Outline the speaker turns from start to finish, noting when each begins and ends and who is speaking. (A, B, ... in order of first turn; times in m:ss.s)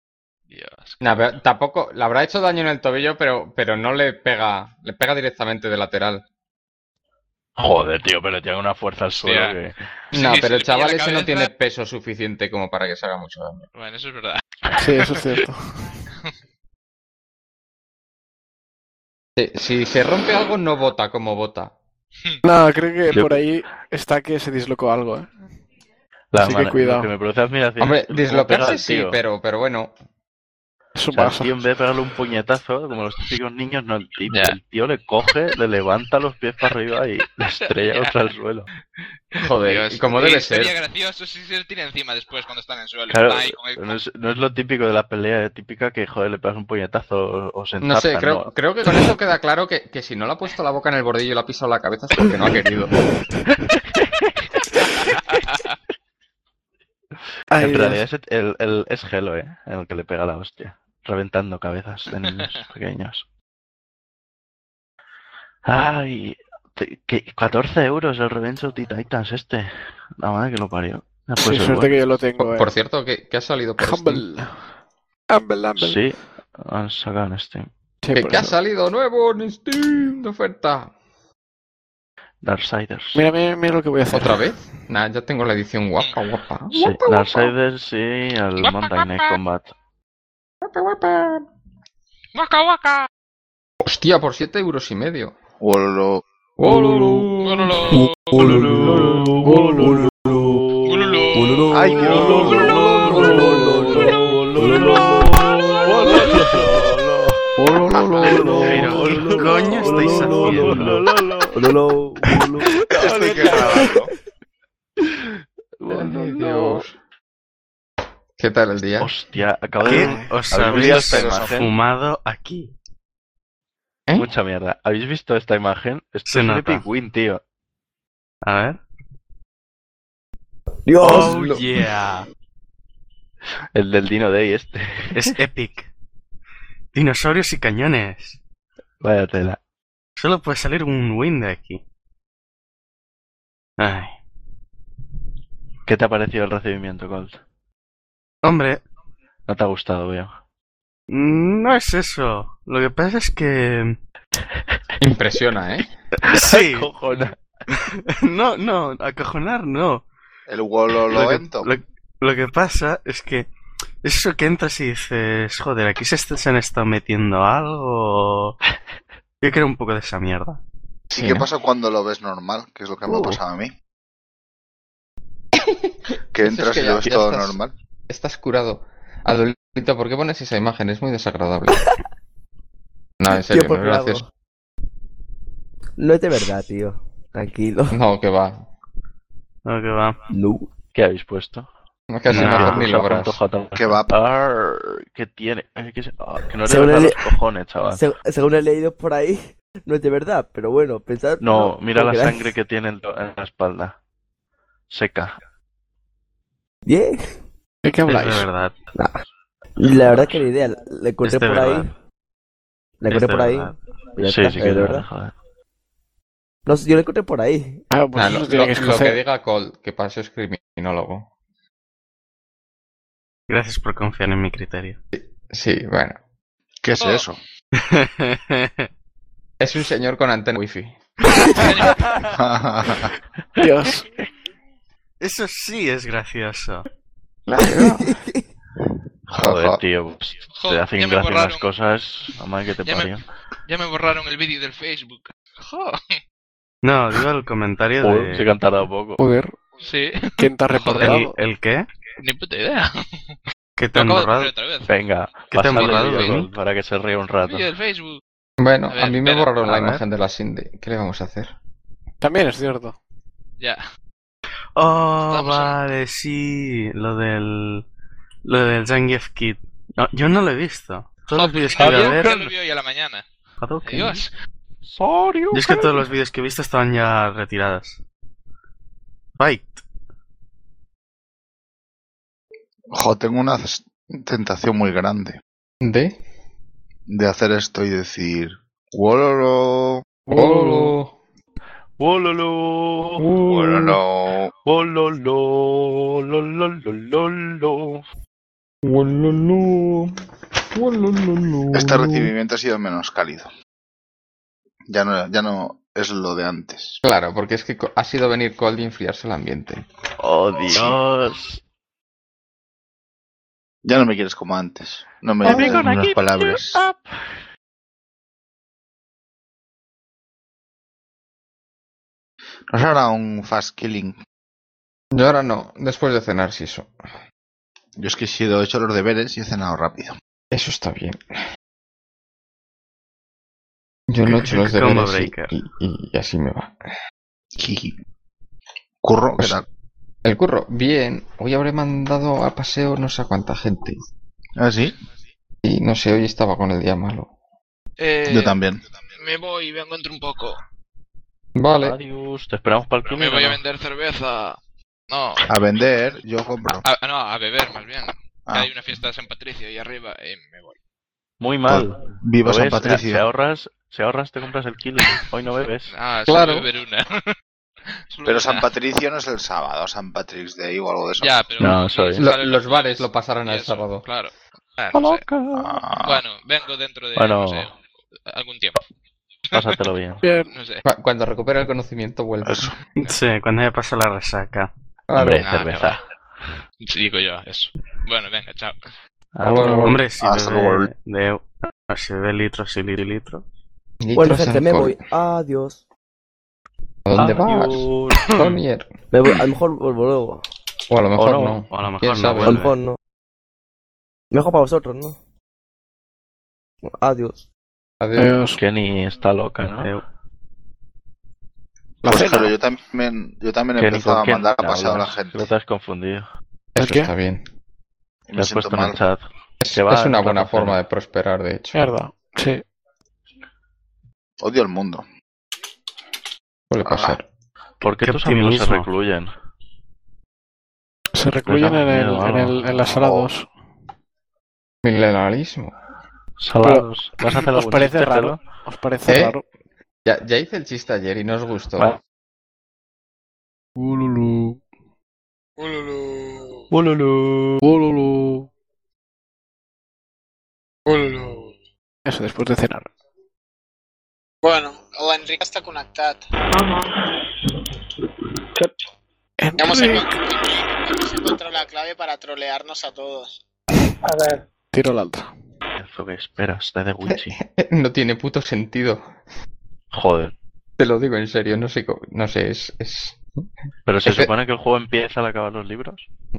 0:00.5-0:01.3 A
0:01.0-0:06.2 B
0:07.6-0:09.8 C
0:09.2-0:09.6 A
0:10.1-0:11.5 A
0:10.1-0:13.7 B
0:13.7-0:15.3 A
0:14.8-0:15.8 D
0:19.4-0:21.7 B
0:22.4-0:25.3 D
0:23.1-0:23.4 C
0:26.3-0:29.2 C
0:26.4-0:27.1 D
0:27.8-0:29.9 B
0:31.0-0:31.6 D
0:31.1-0:38.7 C
0:34.3-0:34.6 A
0:37.8-0:38.1 A
0:39.3-0:44.0 A
0:39.4-0:40.7 B
0:43.1-0:48.5 C
0:47.8-0:53.0 B
0:53.9-0:55.6 C
0:55.0-0:55.7 A
0:57.5-0:58.0 D
0:57.6-1:03.2 C
1:05.6-1:11.9 C
1:11.4-1:12.7 D
1:12.4-1:14.3 B
1:13.8-1:14.6 D
1:15.3-1:16.0 D
1:15.8-1:17.7 C
1:18.0-1:18.6 D
1:18.1-1:20.9 B
1:22.4-1:23.2 C
1:23.1-1:24.5 D
1:24.1-1:27.5 B
1:26.7-1:29.7 C
1:28.6-1:29.4 A
1:30.6-1:31.4 B
1:32.3-1:33.1 A
1:33.8-1:35.4 B
1:35.6-1:36.2 E
1:36.6-1:37.9 B
1:37.4-1:38.5 A
1:38.0-1:39.2 F
1:38.3-1:47.4 C
1:38.4-1:38.7 D
1:39.4-1:40.1 D
1:39.8-1:40.3 F
1:40.8-1:42.4 A
1:41.3-1:46.8 F
1:41.8-1:43.7 E
1:47.6-1:52.7 F
1:47.6-1:48.7 D
1:48.2-1:48.8 B
1:48.3-1:51.5 C
1:48.7-1:51.0 G
1:52.9-1:53.9 C
1:52.9-1:54.1 E
1:55.1-1:56.8 C
1:55.9-1:56.9 B
1:58.4-1:59.1 B
1:59.0-2:01.7 C
1:59.8-2:02.7 G
1:59.9-2:00.3 D
2:00.6-2:01.6 E
2:04.2-2:07.4 C
2:06.3-2:06.8 G
2:08.4-2:08.8 G
2:10.8-2:11.5 F
2:11.0-2:12.2 G
2:11.1-2:11.6 B
2:13.7-2:15.3 C
2:15.1-2:15.9 G
2:16.9-2:18.4 G
2:19.0-2:19.6 C
2:20.2-2:21.8 G
2:23.8-2:24.2 G
2:25.8-2:27.4 C
2:28.4-2:28.8 G
2:29.5-2:30.3 C
2:31.1-2:34.0 G
2:35.0-2:35.9 B
2:36.2-2:37.4 C
2:36.2-2:36.9 G
2:38.1-2:40.0 G
2:40.5-2:41.7 E
2:41.0-2:43.5 G
2:44.0-2:48.6 G
2:49.4-2:50.6 G
2:51.1-2:53.7 E
2:51.1-2:51.5 B
2:55.6-2:57.6 B
2:56.3-2:57.7 E
2:58.1-3:01.9 B
3:03.2-3:04.2 B
3:03.3-3:04.3 F
3:06.0-3:08.0 F
3:07.9-3:08.6 B
3:09.6-3:10.2 G
3:10.3-3:10.7 F
3:10.9-3:11.7 C
3:12.1-3:13.4 B
3:12.3-3:18.0 C
3:12.4-3:12.9 G
3:13.7-3:14.2 E
3:16.6-3:17.4 F
3:17.9-3:22.5 F
3:21.4-3:24.0 C
3:24.9-3:25.3 C
3:26.8-3:27.3 F
3:27.8-3:28.5 D
3:28.0-3:28.7 G
3:29.8-3:31.9 F
3:31.2-3:31.9 G
3:33.0-3:35.0 F
3:33.1-3:33.8 G
3:34.2-3:35.3 C
3:36.6-3:37.8 F
3:37.9-3:39.2 D
3:38.2-3:41.3 B
3:43.5-3:45.0 G
3:45.1-3:46.2 B
3:46.8-3:47.4 E
3:47.0-3:47.2 A
3:47.8-3:48.9 G
3:49.6-3:51.0 B
3:51.3-3:52.4 A
3:52.3-3:53.1 E
3:53.6-3:54.1 D
3:55.2-3:56.8 G
3:57.5-3:58.2 B
3:57.6-3:58.4 F
3:59.3-3:59.8 E
3:59.3-4:03.2 C
4:00.5-4:01.6 A
4:03.7-4:06.2 A
4:06.8-4:08.5 G
4:08.0-4:09.2 C
4:09.2-4:09.6 D
4:09.8-4:11.2 A
4:10.4-4:11.3 D
4:10.9-4:11.8 G
4:12.2-4:13.3 A
4:13.8-4:14.5 G
4:13.9-4:14.9 A
4:14.9-4:17.7 C
4:15.5-4:16.5 G
4:15.7-4:16.4 A
4:17.4-4:18.2 A
4:18.6-4:21.5 B
4:18.9-4:19.5 A
4:19.6-4:20.0 G
4:22.2-4:23.0 D
4:24.8-4:27.8 G
4:25.3-4:25.8 A
4:28.4-4:32.3 G
4:31.3-4:33.2 A
4:31.8-4:32.5 C
4:33.6-4:34.2 G
4:33.8-4:34.3 A
4:34.8-4:36.0 C
4:35.5-4:38.0 G
4:39.4-4:39.8 G
4:42.9-4:45.4 E
4:45.8-4:46.2 B
4:47.1-4:50.0 E
4:50.3-4:51.0 D
4:50.3-4:51.1 B
4:52.0-4:53.2 C
4:53.2-4:54.0 B
4:53.4-4:54.5 E
4:54.6-4:58.0 C
4:58.8-5:00.1 B
5:00.7-5:02.3 B
5:01.7-5:03.5 E
5:04.9-5:07.0 E
5:07.0-5:09.8 B
5:10.2-5:11.6 C
5:13.8-5:16.8 E
5:15.4-5:17.3 C
5:15.4-5:15.8 B
5:22.7-5:24.2 E
5:25.1-5:26.9 B
5:28.0-5:30.1 E
5:30.5-5:31.2 B
5:34.1-5:36.7 B
5:34.2-5:35.5 G
5:37.6-5:37.9 E
5:39.0-5:39.6 E
5:40.2-5:44.0 B
5:44.6-5:44.9 E
5:45.6-5:47.3 B
5:48.0-5:50.6 A
5:48.3-5:48.8 E
5:51.6-5:52.0 B
5:51.8-5:53.6 C
5:53.0-5:54.6 A
5:55.1-5:55.5 A
5:55.5-5:56.8 E
5:56.8-6:00.7 A
6:01.4-6:05.9 C
6:01.7-6:03.2 E
6:05.9-6:07.3 A
6:06.3-6:06.6 B
6:08.1-6:08.7 A
6:08.2-6:11.3 E
6:11.2-6:15.2 A
6:11.6-6:12.3 C
6:12.2-6:14.0 B
6:14.9-6:15.8 C
6:15.5-6:16.2 E
6:16.0-6:17.7 A
6:17.1-6:17.7 C
6:18.3-6:18.8 A
6:19.5-6:20.2 C
6:20.2-6:20.5 D
6:20.5-6:20.8 A
6:20.8-6:22.7 B
6:22.4-6:22.8 E
6:23.0-6:24.7 G
6:25.1-6:25.5 B
6:25.1-6:26.0 C
6:25.4-6:26.0 A
6:26.8-6:28.8 A
6:29.3-6:29.9 C
6:29.4-6:30.0 B
6:29.7-6:33.4 G
6:30.2-6:30.9 E
6:34.0-6:35.0 B
6:34.1-6:35.8 F
6:37.0-6:38.9 B
6:37.1-6:38.4 C
6:39.1-6:40.4 F
6:40.9-6:42.6 B
6:41.2-6:41.6 C
6:41.7-6:42.7 G
6:42.4-6:43.0 F
6:44.3-6:45.2 F
6:46.8-6:47.4 F
6:48.0-6:48.3 B
6:48.2-6:48.6 D
6:48.6-6:49.9 C
6:52.0-6:55.5 E
6:52.1-6:52.5 D
6:53.8-6:56.3 C
6:56.7-6:57.4 B
6:56.8-6:57.1 D
6:58.3-6:59.0 E
6:58.4-7:00.8 C
6:59.6-7:01.8 B
7:01.7-7:02.6 D
7:04.4-7:05.0 E
7:06.7-7:07.2 B
7:06.8-7:07.2 E
7:07.8-7:09.3 C
7:07.8-7:08.9 G
7:11.1-7:13.5 D
7:11.4-7:13.3 C
7:14.8-7:15.7 B
7:16.4-7:18.4 C
7:16.6-7:19.4 D
7:19.1-7:19.4 B
7:20.0-7:21.9 B
7:23.8-7:24.6 D
7:25.6-7:26.6 H
7:26.7-7:27.7 C
7:27.6-7:28.5 D
7:30.9-7:31.6 H
7:32.0-7:32.9 D
7:34.4-7:37.0 H
7:39.4-7:40.1 D
7:39.6-7:43.4 H
7:44.0-7:44.4 H
7:44.7-7:45.3 D
7:45.8-7:47.4 C
7:47.1-7:49.0 B
7:49.9-7:50.3 C
7:50.8-7:53.2 B
7:53.9-7:56.0 C
7:54.0-7:54.3 B